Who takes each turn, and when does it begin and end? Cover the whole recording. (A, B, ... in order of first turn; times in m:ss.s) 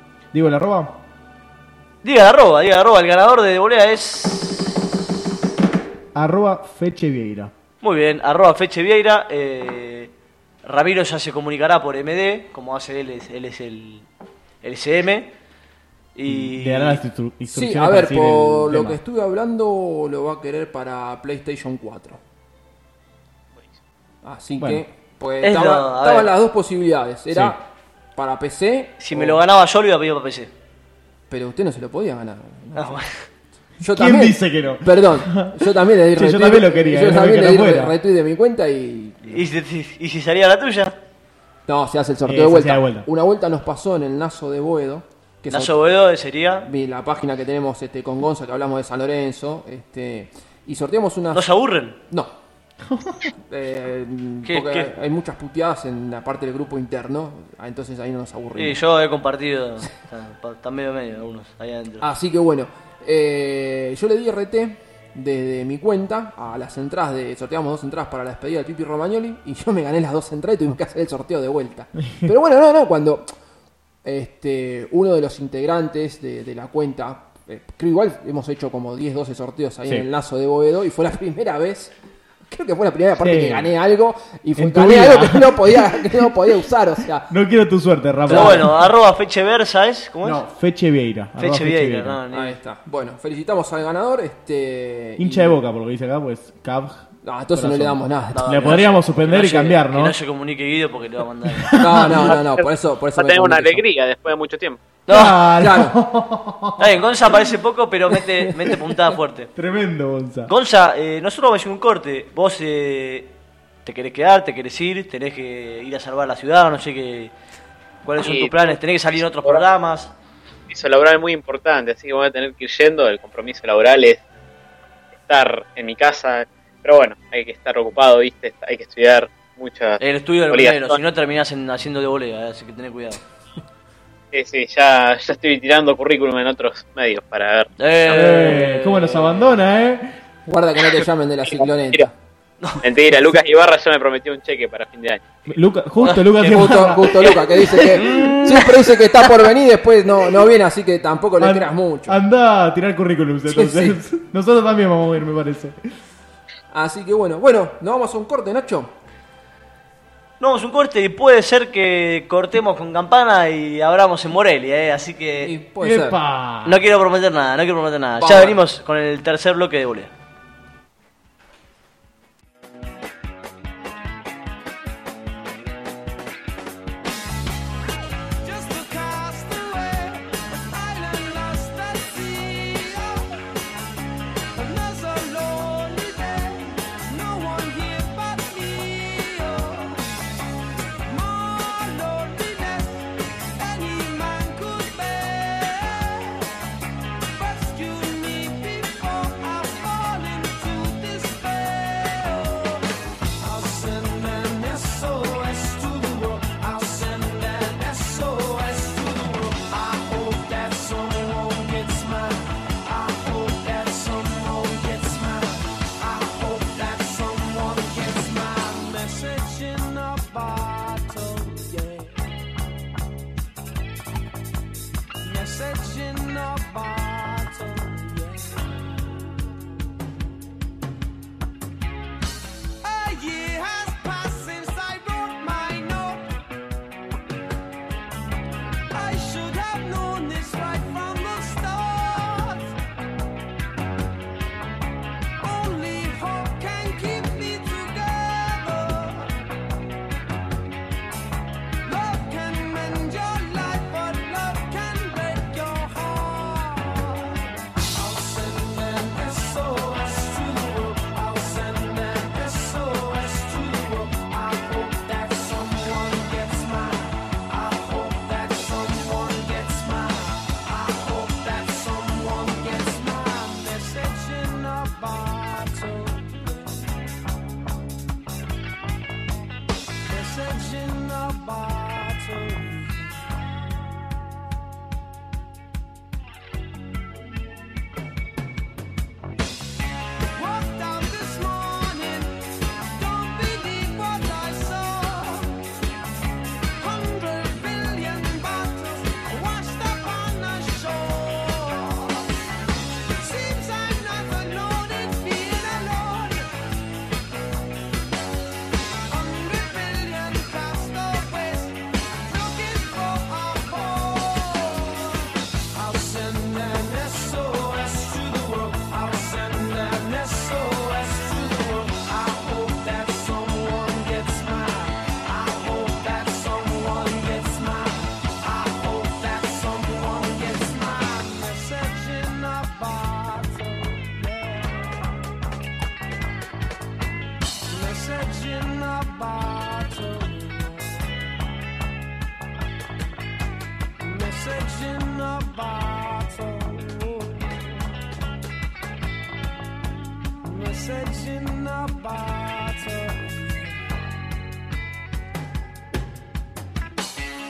0:00.3-0:01.0 A
0:02.0-0:04.8 B
0:06.1-0:07.5 A
0:07.8-0:10.1 B
0:10.6-0:14.1 B
0:14.6-0:15.3 B
0:16.2-0:17.1 B
0:16.3-0:19.0 A
0:17.5-0:22.2 C
0:24.2-0:27.6 C
0:24.6-0:24.8 A
0:25.4-0:26.4 B
0:28.2-0:29.4 C
0:29.0-0:30.5 B
0:31.3-0:33.0 C
0:32.8-0:33.3 B
0:33.8-0:39.4 C
0:33.8-0:38.0 A
0:39.2-0:41.0 B
0:41.7-0:45.8 C
0:42.3-0:43.1 A
0:45.5-0:46.7 B
0:46.6-0:51.5 C
0:51.3-0:52.0 B
0:52.1-0:52.3 C
0:52.9-0:53.3 A
0:53.4-0:58.8 C
0:54.4-0:54.9 B
0:58.6-1:02.1 B
1:02.0-1:13.3 C
1:14.0-1:22.0 C
1:22.5-1:27.3 C
1:23.2-1:23.7 A
1:24.6-1:26.3 A
1:27.3-1:28.9 A
1:28.3-1:28.7 C
1:28.3-1:30.4 B
1:30.2-1:32.2 A
1:31.4-1:32.6 B
1:32.3-1:35.6 C
1:35.2-1:40.2 A
1:37.2-1:38.9 C
1:38.3-1:41.9 B
1:41.5-1:42.3 A
1:41.8-1:43.8 C
1:42.4-1:42.6 D
1:43.2-1:44.8 D
1:45.1-1:45.4 B
1:45.1-1:47.0 A
1:45.6-1:46.0 C
1:46.8-1:49.5 B
1:49.6-1:50.5 A
1:50.5-1:53.3 B
1:53.9-1:57.3 B
1:58.0-2:00.1 B
1:58.2-1:58.8 D
2:00.7-2:04.2 D
2:05.2-2:11.0 D
2:10.0-2:13.2 B
2:14.3-2:18.2 D
2:17.8-2:19.6 B
2:18.1-2:20.2 A
2:20.5-2:22.1 C
2:22.6-2:22.9 B
2:22.8-2:25.5 D
2:25.5-2:28.4 A
2:26.0-2:26.7 B
2:26.4-2:32.2 C
2:27.8-2:29.2 B
2:31.4-2:35.8 A
2:33.5-2:34.0 C
2:36.7-2:38.9 C
2:40.4-2:45.5 B
2:45.4-2:46.2 C
2:45.8-2:46.8 A
2:46.6-2:50.1 B
2:48.2-2:48.6 C
2:58.4-3:03.5 E
3:04.5-3:10.0 E
3:11.0-3:16.5 E
3:17.3-3:22.9 E
3:23.4-3:42.2 E
3:45.2-3:48.6 E
3:52.8-3:56.3 E
3:58.9-4:02.7 E
4:05.4-4:09.3 E
4:11.8-4:37.0 E
4:40.1-4:43.3 E
4:50.3-4:55.6 E
4:56.8-5:02.3 E
5:03.0-5:06.5 E
5:09.1-5:35.2 E
5:37.7-5:41.1 E
5:44.0-5:47.9 E
5:50.4-5:53.9 E